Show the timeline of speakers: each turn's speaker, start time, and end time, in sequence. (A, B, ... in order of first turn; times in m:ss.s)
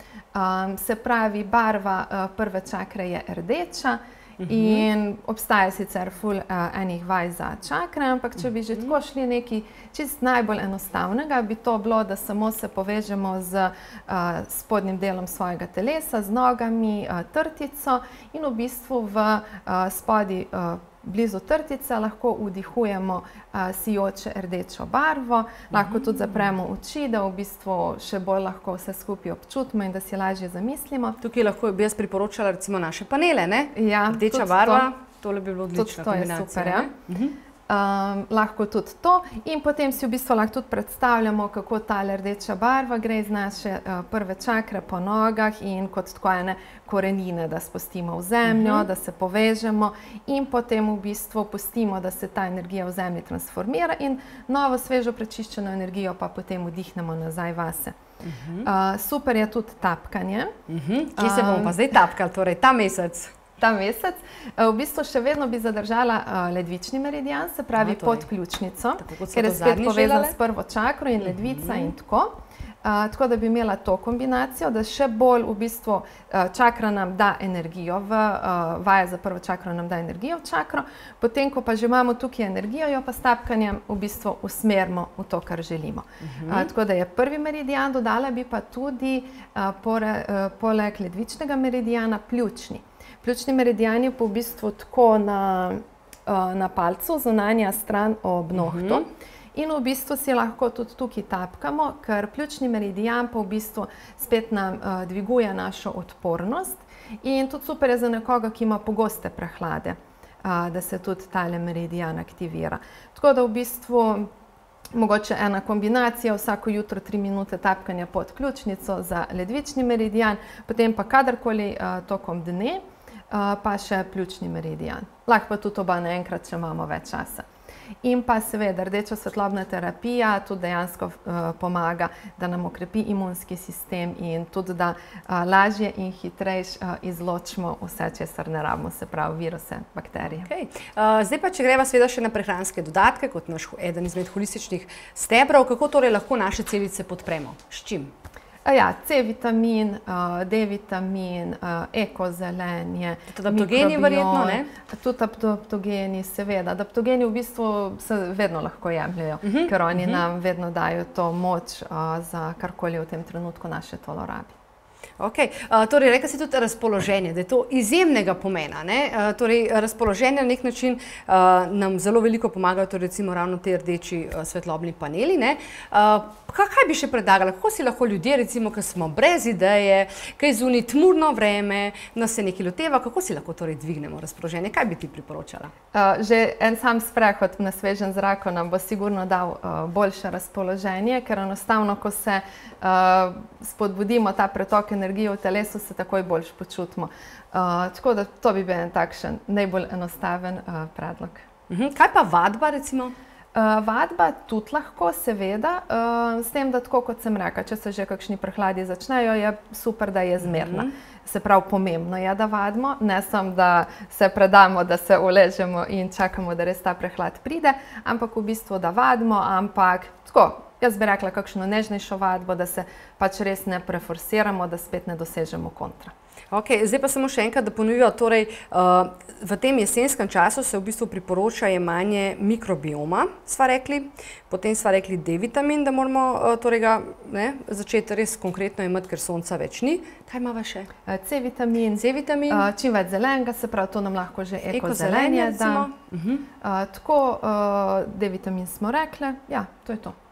0:00.3-0:31.2 A
0:04.4-0:04.9 B
0:25.7-0:26.4 B
0:31.2-0:37.4 B
0:33.8-0:34.9 A
0:35.7-0:36.9 A
0:37.7-0:58.0 A
0:48.5-0:48.9 B
0:58.2-0:58.7 B
0:58.6-1:00.5 A
1:00.7-1:03.4 B
1:01.2-1:01.8 A
1:03.6-1:54.3 A
1:07.8-1:08.3 B
1:09.0-1:10.4 B
1:11.2-1:11.9 B
1:26.2-1:26.7 B
1:38.5-1:39.0 B
1:54.9-2:07.5 A
2:08.0-2:20.5 A
2:20.3-2:28.1 B
2:28.7-2:44.6 A
2:33.3-2:34.7 B
2:39.4-2:40.2 B
2:45.2-3:05.7 B
3:05.9-3:21.4 A
3:21.7-3:23.1 B
3:23.5-3:46.1 A
3:30.4-3:30.9 B
3:46.5-4:00.9 B
4:01.1-4:05.9 A
4:02.0-4:02.6 B
4:04.7-4:06.4 B
4:06.6-4:10.2 A